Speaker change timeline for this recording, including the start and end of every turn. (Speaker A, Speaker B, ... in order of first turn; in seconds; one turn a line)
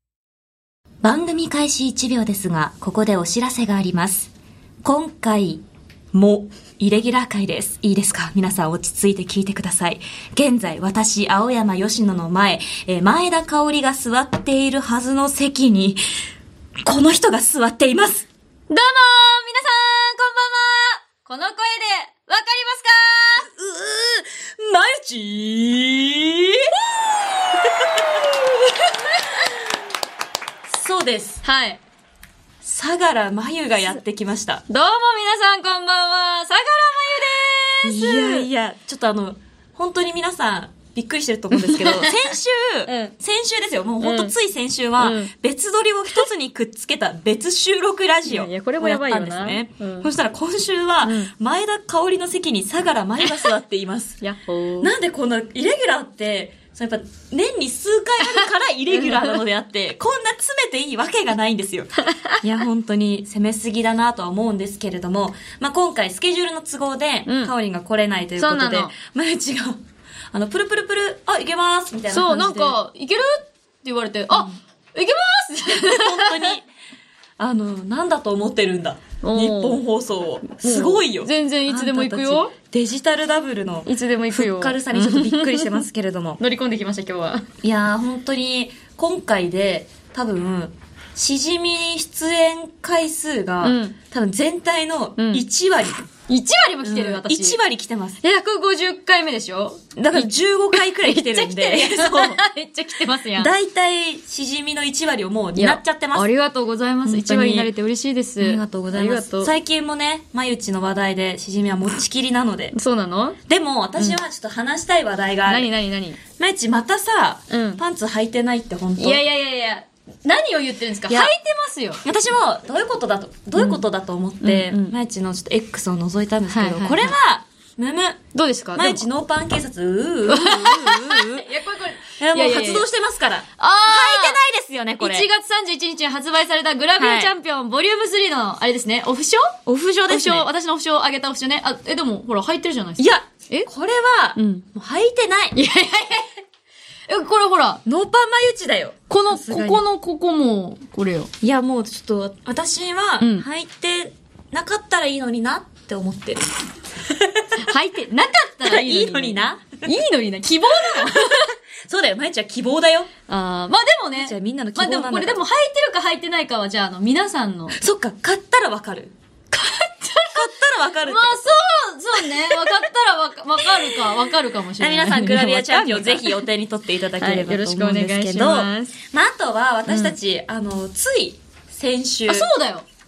Speaker A: 1.0-4.3
Speaker A: 4.8-16.0
Speaker A: 16.8-18.3
Speaker B: 18.7-23.5
Speaker A: 23.4-26.8
Speaker A: 27.4-28.6
Speaker A: 30.8-31.4
Speaker B: 31.4-31.8
Speaker A: 32.6-34.6
Speaker B: 34.7-38.5
Speaker A: 37.8-54.2
Speaker B: 41.5-42.3
Speaker B: 42.9-43.1
Speaker B: 44.0-44.4
Speaker B: 45.0-45.3
Speaker B: 48.2-50.1
Speaker B: 51.0-51.3
Speaker B: 54.2-54.9
Speaker A: 54.8-72.8
Speaker B: 62.0-62.4
Speaker B: 67.3-67.5
Speaker B: 68.4-68.9
Speaker B: 72.1-76.6
Speaker A: 75.7-76.7
Speaker A: 77.4-86.4
Speaker B: 79.2-79.8
Speaker B: 80.5-82.5
Speaker B: 83.9-85.8
Speaker B: 86.4-87.5
Speaker A: 87.6-96.1
Speaker B: 93.6-94.0
Speaker B: 95.2-95.5
Speaker B: 96.3-97.6
Speaker A: 96.8-98.2
Speaker B: 98.2-100.3
Speaker A: 100.0-102.4
Speaker B: 100.9-103.5
Speaker A: 103.4-106.3
Speaker B: 105.6-109.5
Speaker A: 107.0-107.7
Speaker A: 108.4-112.8
Speaker B: 112.7-113.4
Speaker A: 113.5-115.7
Speaker B: 115.5-116.2
Speaker A: 116.3-119.2
Speaker B: 117.5-117.8
Speaker B: 119.0-122.0
Speaker A: 121.1-121.3
Speaker A: 122.0-128.2
Speaker B: 124.4-125.0
Speaker B: 126.5-127.1
Speaker B: 128.3-129.1
Speaker A: 128.8-131.5
Speaker B: 130.3-132.9
Speaker A: 132.2-135.3
Speaker B: 133.6-134.4
Speaker B: 135.0-139.6
Speaker A: 137.0-137.3
Speaker A: 139.7-140.5
Speaker B: 140.1-143.7
Speaker A: 143.0-145.6
Speaker B: 144.4-144.7
Speaker B: 145.6-146.4
Speaker B: 147.1-147.8
Speaker A: 147.8-149.8
Speaker B: 149.1-151.3
Speaker A: 151.4-156.5
Speaker B: 153.2-153.5
Speaker A: 157.1-157.6
Speaker B: 157.6-161.6
Speaker A: 158.6-159.8
Speaker A: 160.8-161.3
Speaker A: 161.9-163.1
Speaker B: 163.3-167.8
Speaker A: 164.2-165.4
Speaker A: 167.8-169.2
Speaker B: 169.5-170.5
Speaker A: 170.3-171.5
Speaker B: 171.0-176.4
Speaker A: 172.2-172.9
Speaker A: 173.6-182.5
Speaker B: 177.2-178.9
Speaker B: 179.9-180.2
Speaker B: 182.3-182.8